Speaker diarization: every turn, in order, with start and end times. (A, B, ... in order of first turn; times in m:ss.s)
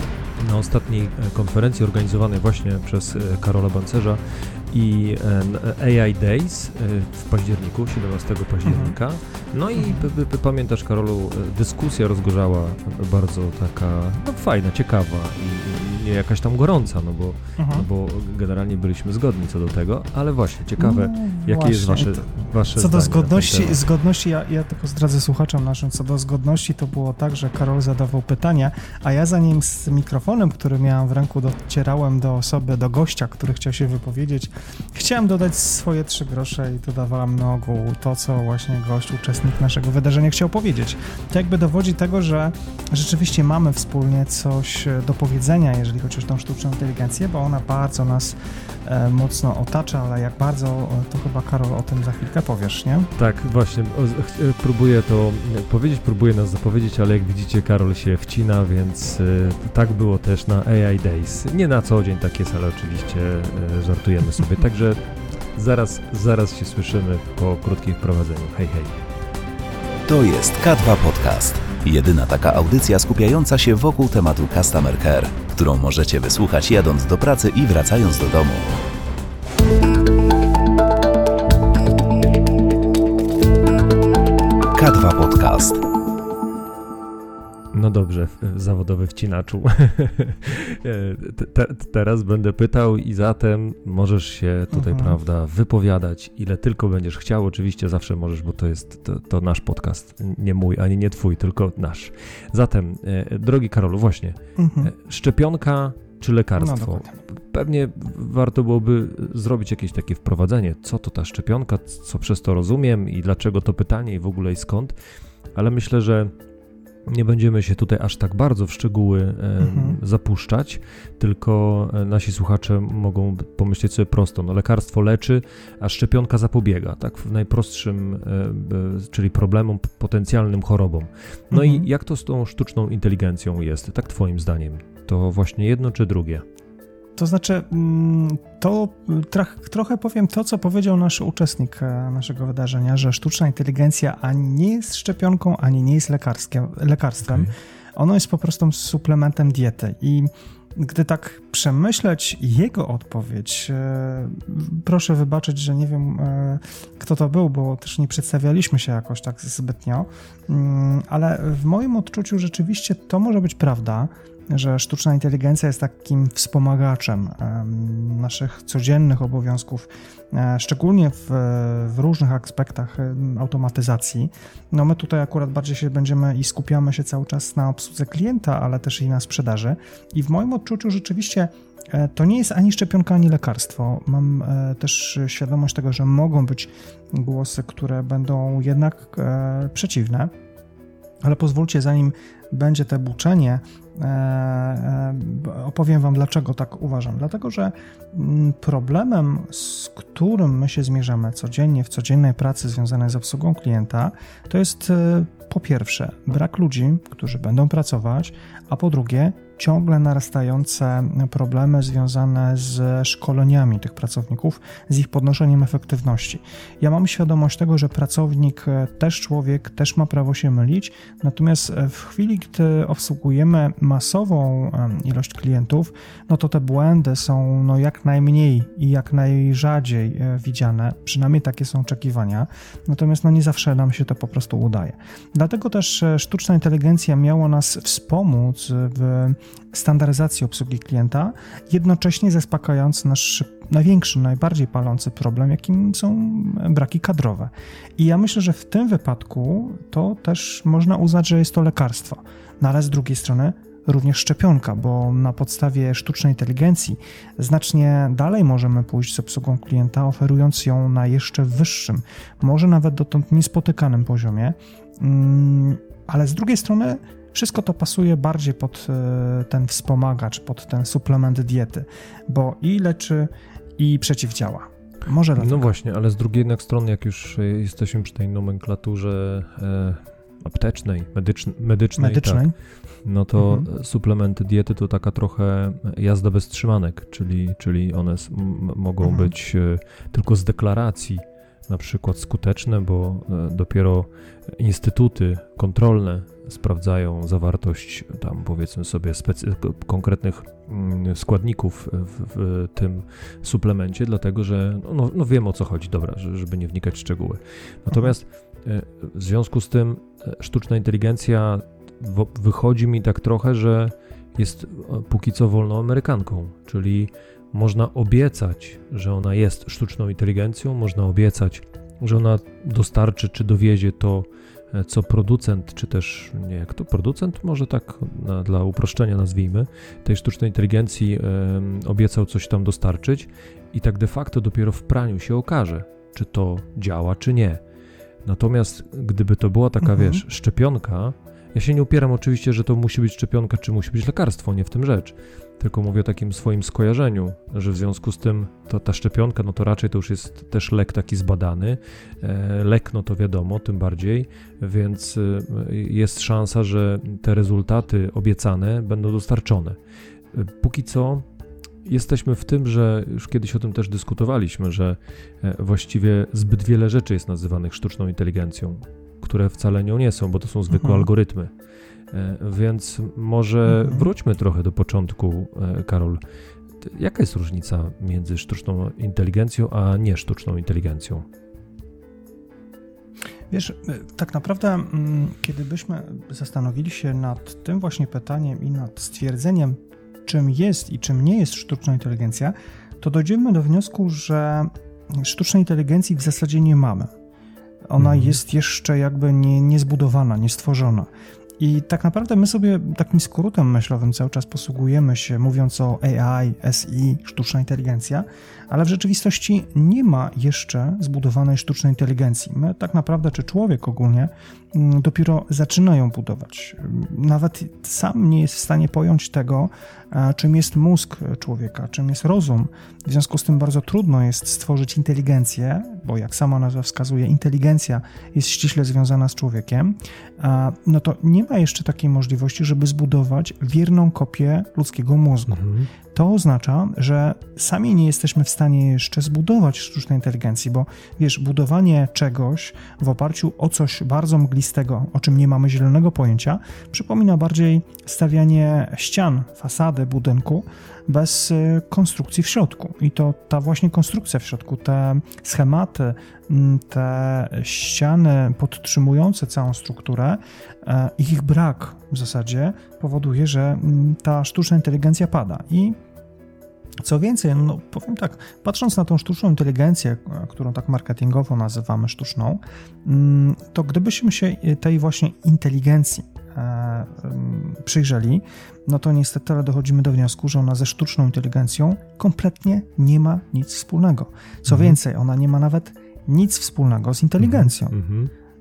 0:00.4-0:23.8 A
0:08.6-0:09.0 B
0:09.8-0:10.1 B
0:17.6-0:17.9 B
0:20.8-0:53.1 B
0:53.2-1:05.0 A
1:05.5-1:09.0 A
1:10.1-1:18.8 C
1:24.7-1:25.8 C
1:27.7-1:55.0 A
1:34.7-1:35.2 B
1:44.6-1:44.9 B
1:46.6-1:47.2 B
1:55.6-1:56.3 A
1:57.1-2:16.4 A
1:59.6-2:00.0 B
2:11.5-2:11.9 B
2:17.2-3:10.3 B
2:27.2-2:27.5 A
3:11.2-4:35.8 B
4:35.4-4:42.5 A
4:42.0-4:42.6 B
4:43.0-5:37.6 A
4:43.4-4:43.7 B
4:49.0-4:49.3 B
5:38.2-5:59.8 A
5:39.8-5:40.2 B
6:00.3-6:01.2 A
6:01.8-6:11.5 A
6:10.7-6:11.1 B
6:12.1-6:16.2 A
6:13.7-6:14.1 B
6:16.8-6:21.2 A
6:23.5-6:37.1 B
6:37.9-7:46.0 B
6:38.0-6:38.4 A
7:15.5-7:15.9 A
7:47.0-8:08.0 B
8:04.7-8:05.0 A
8:07.4-8:08.3 A